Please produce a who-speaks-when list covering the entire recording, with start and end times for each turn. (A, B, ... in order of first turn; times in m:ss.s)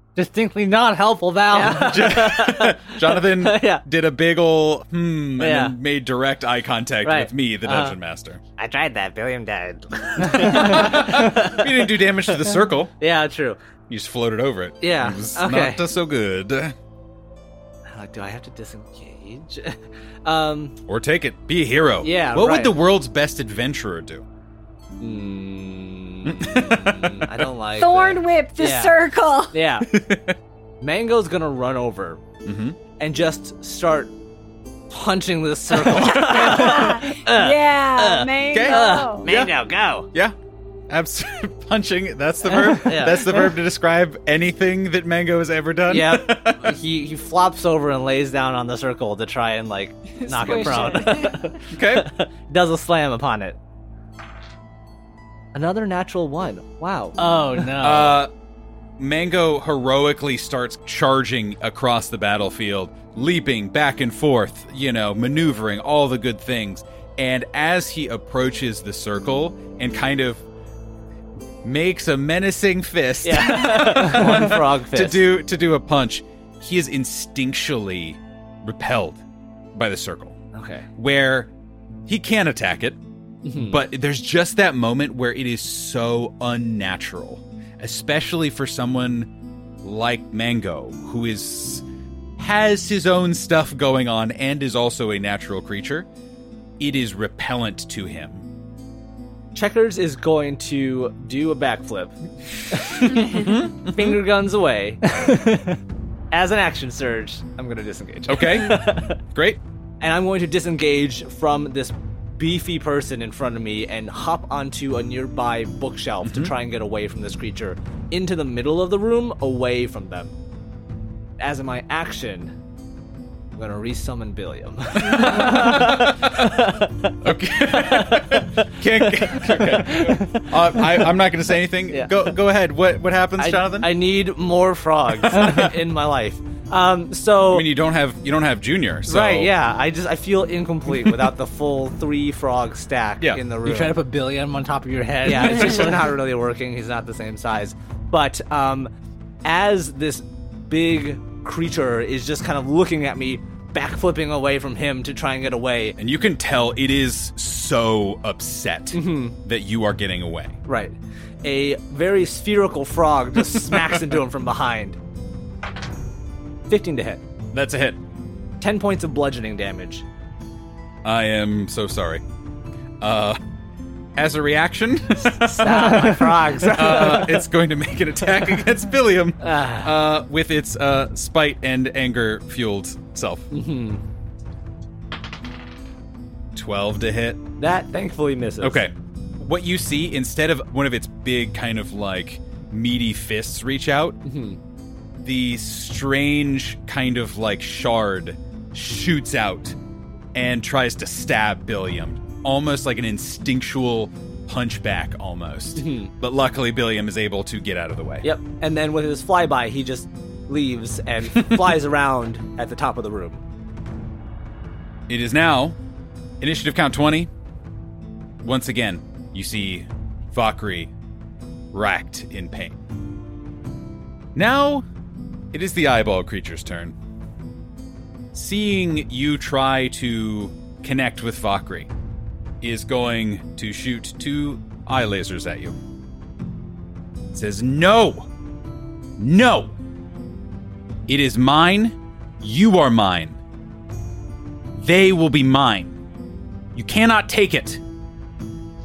0:00.2-0:02.2 A
0:01.5-0:03.8 B
0:01.8-0:08.4 C
0:05.4-0:05.7 B
0:07.0-0:07.9 B
0:08.6-0:13.6 B
0:10.2-0:12.9 C
0:13.9-0:16.7 C
0:14.8-0:15.8 B
0:17.9-0:20.8 B
0:20.9-0:24.2 C
0:22.0-0:22.8 B
0:25.0-0:29.0 B
0:26.2-0:27.5 C
0:27.7-0:29.5 D
0:29.5-0:29.9 B
0:29.9-0:30.4 C
0:30.8-0:32.2 B
0:32.4-0:32.8 C
0:33.0-0:34.1 B
0:34.9-0:40.1 B
0:36.2-0:39.3 D
0:38.5-0:39.6 C
0:40.9-0:46.8 C
0:42.4-0:43.6 B
0:45.9-0:53.6 B
0:50.1-0:51.5 D
0:50.4-0:51.1 C
0:51.7-0:52.1 C
0:55.5-0:57.7 B
0:57.2-0:58.2 A
0:57.8-0:58.3 C
0:59.0-1:10.4 C
1:11.6-1:19.2 C
1:13.2-1:15.3 B
1:19.7-1:20.4 C
1:20.5-1:20.9 B
1:21.0-1:21.5 C
1:22.1-1:23.0 C
1:23.4-1:23.8 B
1:23.6-1:29.3 C
1:29.8-1:31.8 C
1:32.4-1:36.1 C
1:36.8-1:38.4 C
1:39.5-1:42.2 B
1:42.7-1:45.4 B
1:43.0-1:44.2 C
1:45.1-1:45.7 A
1:46.3-1:49.2 B
1:48.3-1:49.6 C
1:50.0-2:00.3 B
1:56.2-1:56.5 C
2:01.4-2:02.5 B
2:03.6-2:07.1 B
2:05.0-2:06.6 C
2:07.2-2:13.9 C
2:07.7-2:11.1 B
2:11.9-2:12.3 B
2:13.4-2:17.7 B
2:15.2-2:15.7 C
2:15.3-2:15.7 A
2:17.5-2:19.5 C
2:19.1-2:24.0 B
2:23.6-2:26.1 A
2:25.2-2:28.9 B
2:29.4-2:36.0 B
2:36.0-2:40.6 C
2:38.9-2:39.4 B
2:40.7-2:45.0 B
2:46.7-2:47.2 B
2:47.5-2:48.0 C
2:48.6-2:50.0 B
2:51.0-2:52.2 C
2:53.0-2:53.4 C
2:54.1-3:03.5 C
2:55.2-2:57.4 B
2:55.8-2:56.3 A
2:59.4-3:00.0 B
3:03.5-3:04.0 B
3:06.5-3:07.4 C
3:07.6-3:08.8 B
3:08.6-3:14.2 C
3:14.2-3:14.6 B
3:15.2-3:19.8 C
3:20.3-3:28.3 C
3:25.8-3:26.1 B
3:28.2-3:33.4 B
3:35.1-3:35.8 C
3:36.4-3:37.3 C
3:38.4-3:40.9 C
3:41.7-3:42.8 C
3:44.3-3:44.8 C
3:45.5-3:46.9 C
3:48.3-3:51.9 C
3:52.6-3:55.8 C
3:57.3-3:58.3 C
3:59.2-3:59.7 C
4:01.1-4:03.4 C
4:04.7-4:06.0 C
4:06.7-4:07.8 C